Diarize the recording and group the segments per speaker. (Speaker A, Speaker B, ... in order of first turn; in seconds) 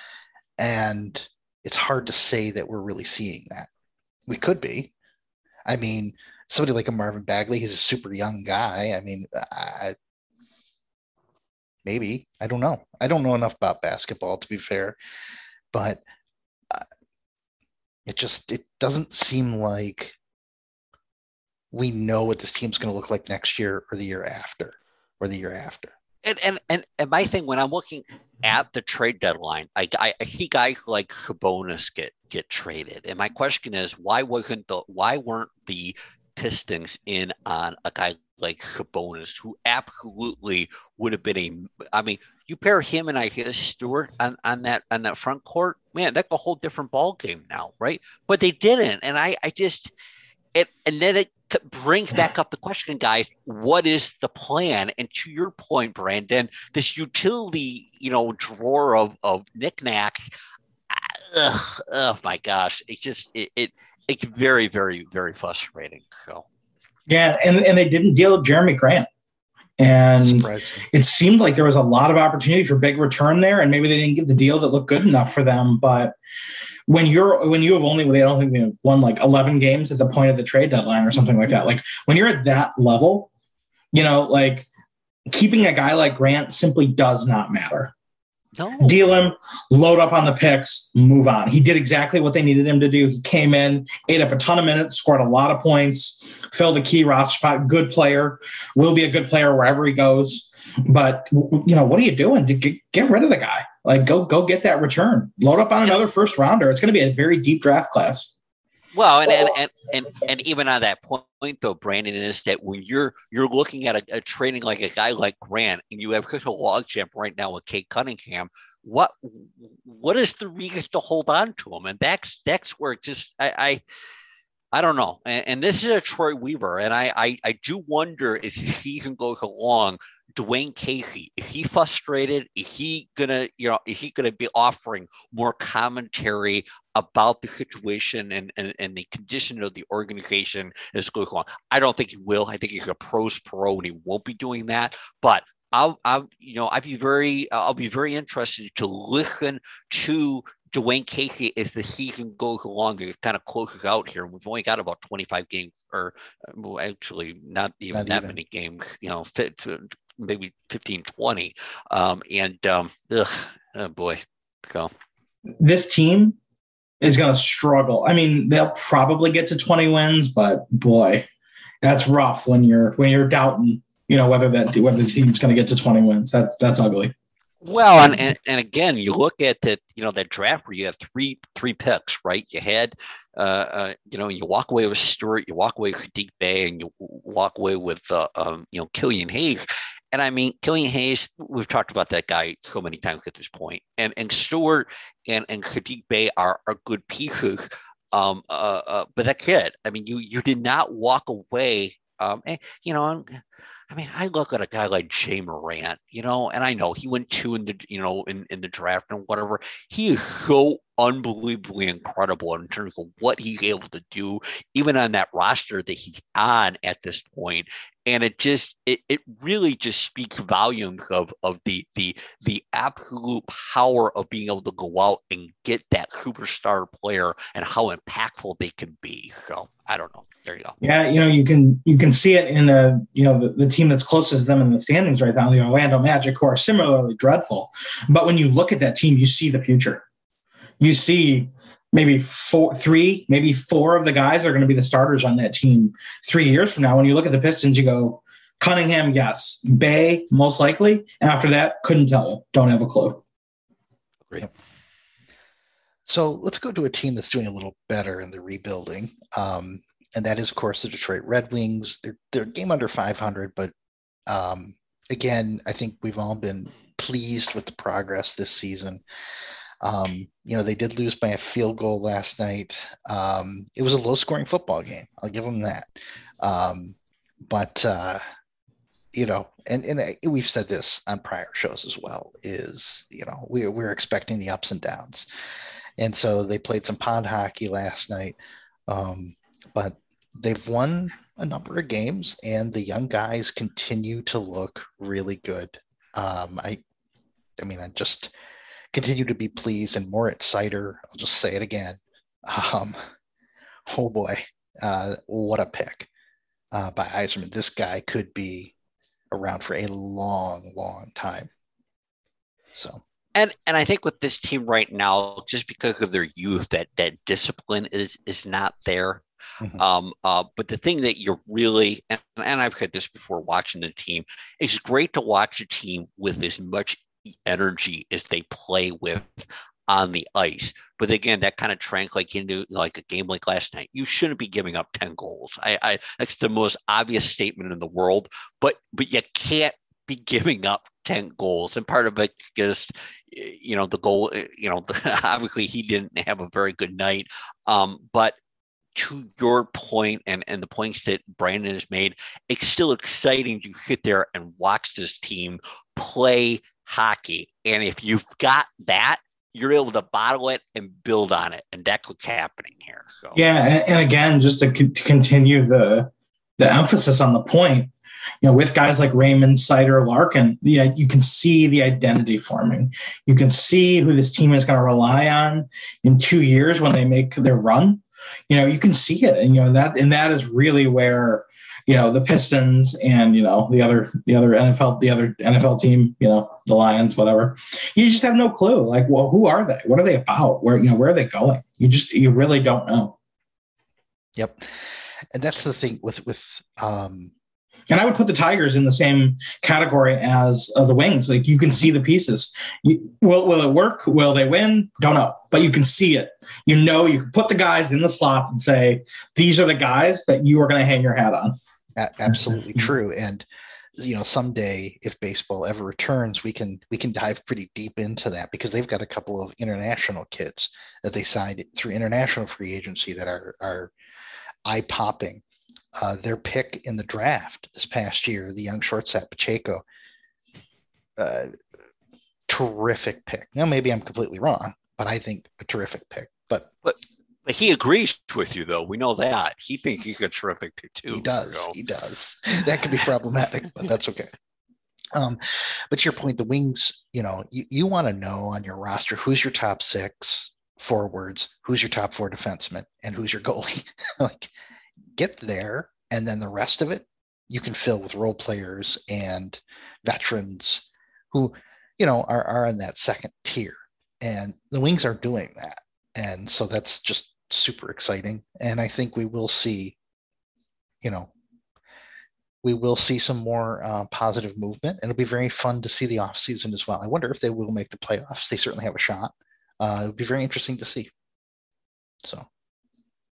Speaker A: 0.6-3.7, 4.3-4.9, 5.7-9.9, 11.8-14.9, 15.7-16.0, 18.1-20.1, 21.7-25.9, 70.2-70.9, 157.9-158.4, 256.1-263.7, 264.3-269.0, 269.8-275.9, 276.4-276.9, 277.5-278.2, 279.1-285.3, 286.0-288.4, 288.9-296.8, 297.6-298.3, 298.9-303.0, 303.9-306.1, 306.7-308.7, 309.3-311.5, 312.7-313.0, 394.4-394.7, 395.3-397.3, 412.0-413.4, 414.0-423.9, 424.6-425.4, 426.0-429.8, 431.2-431.5, 432.5-436.7, 441.1-444.3, 445.1-454.5, 455.1-470.0, 471.0-471.3, 472.6-481.1
Speaker B: 26.2-49.9, 50.5-60.3, 60.9-66.5, 88.5-89.0, 108.9-123.8, 124.7-164.9, 177.6-230.8, 313.3-319.2, 319.8-348.4, 348.9-363.4, 436.8-441.7
Speaker C: 67.1-69.1, 69.8-76.1, 76.9-83.3, 83.9-84.7, 85.3-87.9, 88.8-108.3, 165.6-166.4, 167.0-171.3, 171.8-177.1, 230.8-240.0, 240.8-253.2, 363.3-367.9, 368.4-393.1, 397.9-411.6